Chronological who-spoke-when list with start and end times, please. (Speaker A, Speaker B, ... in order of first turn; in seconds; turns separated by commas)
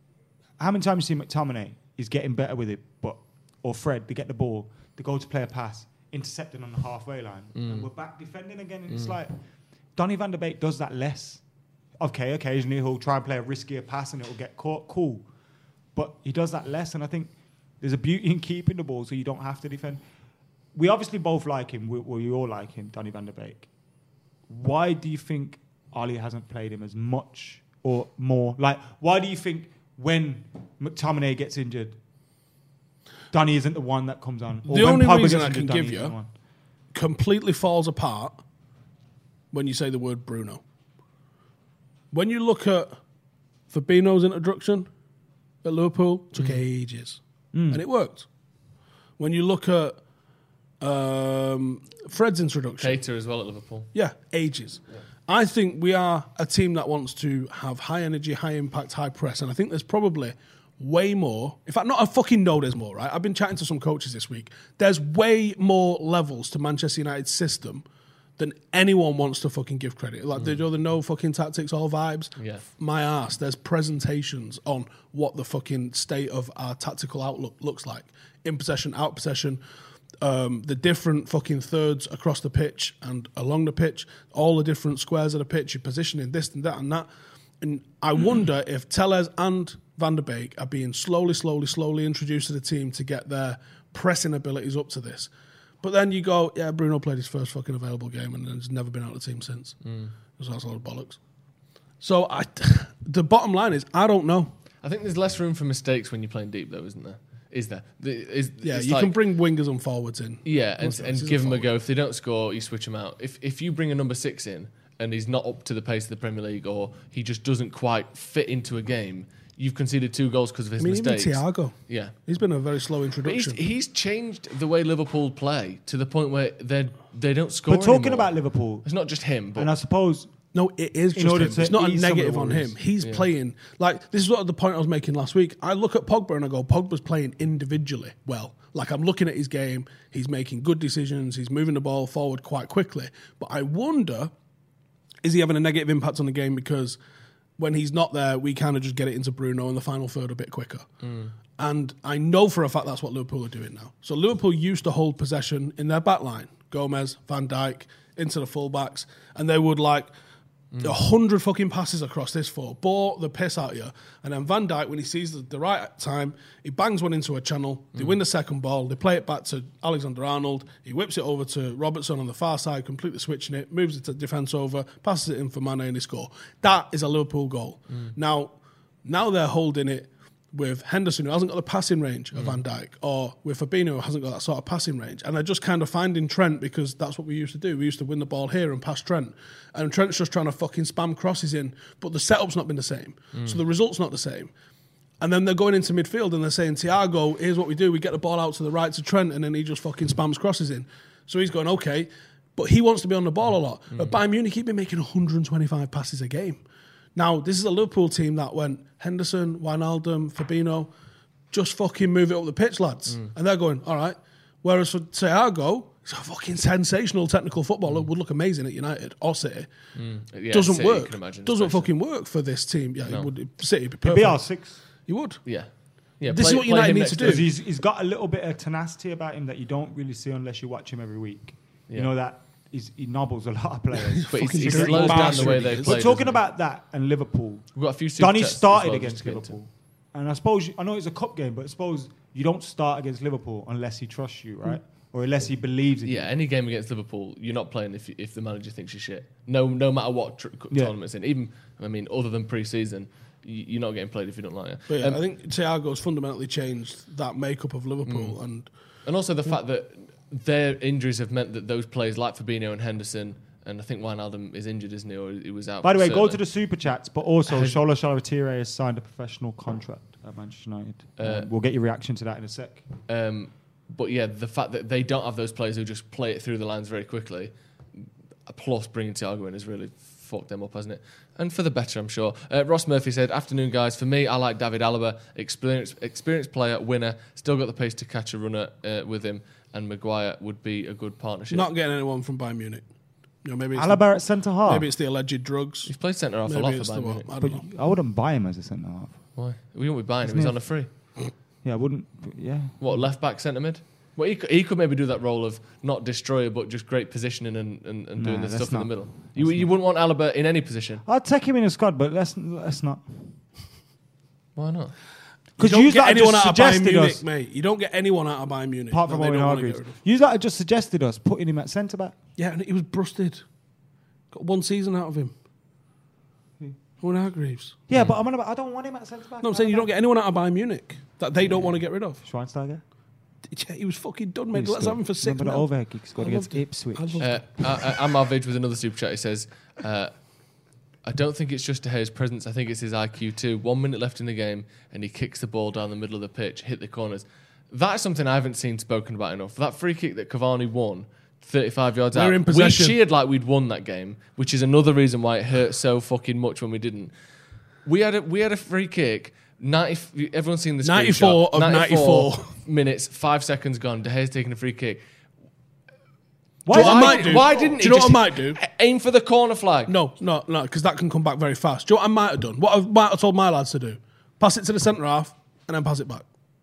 Speaker A: 0.6-9.4, Speaker B: 7.5-7.9, Speaker A: 9.9-11.4, Speaker A: 12.0-15.2, Speaker A: 15.9-20.0, Speaker A: 20.7-23.7, Speaker A: 24.5-32.0, Speaker A: 33.3-36.3, Speaker C: 34.7-36.1, Speaker C: 36.9-38.4, Speaker C: 39.5-40.6, Speaker C: 42.1-42.9, Speaker C: 43.7-44.9, Speaker C: 45.6-48.2, Speaker A: 47.5-47.8, Speaker C: 49.2-50.0, Speaker C: 50.8-53.0, Speaker B: 52.8-53.9, Speaker C: 53.9-67.8, Speaker C: 68.4-79.6, Speaker B: 70.3-70.6, Speaker B: 72.4-72.6, Speaker C: 80.2-87.1, Speaker C: 87.6-95.3, Speaker C: 95.8-99.8, Speaker B: 99.8-100.1, Speaker C: 100.3-101.2, Speaker C: 102.0-104.5, Speaker B: 104.8-109.1, Speaker C: 108.6-111.7, Speaker B: 110.4-122.1, Speaker C: 120.8-123.6, Speaker B: 123.2-128.3, Speaker A: 127.7-128.8, Speaker B: 128.8-129.7, Speaker A: 129.5-130.3, Speaker C: 130.5-144.3, Speaker A: 131.1-132.7, Speaker C: 145.2-147.0, Speaker C: 147.6-150.8, Speaker B: 151.0-151.3, Speaker C: 151.6-160.1, Speaker C: 160.8-178.5, Speaker C: 179.0-194.5, Speaker B: 193.3-193.6, Speaker C: 195.2-206.6, Speaker C: 207.2-210.9, Speaker C: 211.5-219.7, Speaker B: 219.9-221.9, Speaker C: 220.5-224.4, Speaker A: 224.0-224.8, Speaker C: 225.1-225.4, Speaker B: 226.2-227.4, Speaker C: 226.3-227.4, Speaker A: 227.1-246.3, Speaker C: 234.1-236.0, Speaker B: 234.3-236.4, Speaker B: 237.7-239.5, Speaker B: 246.0-255.2, Speaker C: 254.9-258.7, Speaker B: 258.1-258.4, Speaker B: 259.0-266.4, Speaker A: 265.8-272.9, Speaker B: 267.5-267.8, Speaker B: 271.2-271.5, Speaker B: 273.1-291.7, Speaker C: 291.5-292.8, Speaker C: 293.4-294.0, Speaker A: 293.7-294.9, Speaker C: 294.6-295.9, Speaker B: 295.9-297.3, Speaker C: 296.4-297.6, Speaker A: 297.3-299.2, Speaker B: 299.4-300.9, Speaker A: 300.2-300.6, Speaker A: 301.6-303.1, Speaker B: 302.8-311.0, Speaker A: 308.1-309.7, Speaker A: 311.0-313.4, Speaker B: 314.6-314.9, Speaker A: 315.6-317.2, Speaker C: 315.6-319.9, Speaker A: 318.9-322.2, Speaker C: 322.4-323.4, Speaker C: 324.3-325.3, Speaker C: 327.0-327.8, Speaker A: 327.9-329.9, Speaker C: 329.4-332.2, Speaker A: 332.2-332.8, Speaker C: 333.5-337.3, Speaker A: 334.5-337.3, Speaker B: 337.2-340.1, Speaker B: 341.0-357.1, Speaker C: 352.1-353.0, Speaker B: 357.8-365.0, Speaker C: 360.8-362.5, Speaker A: 366.6-367.7, Speaker C: 366.7-368.6, Speaker B: 366.7-369.9, Speaker C: 369.9-376.2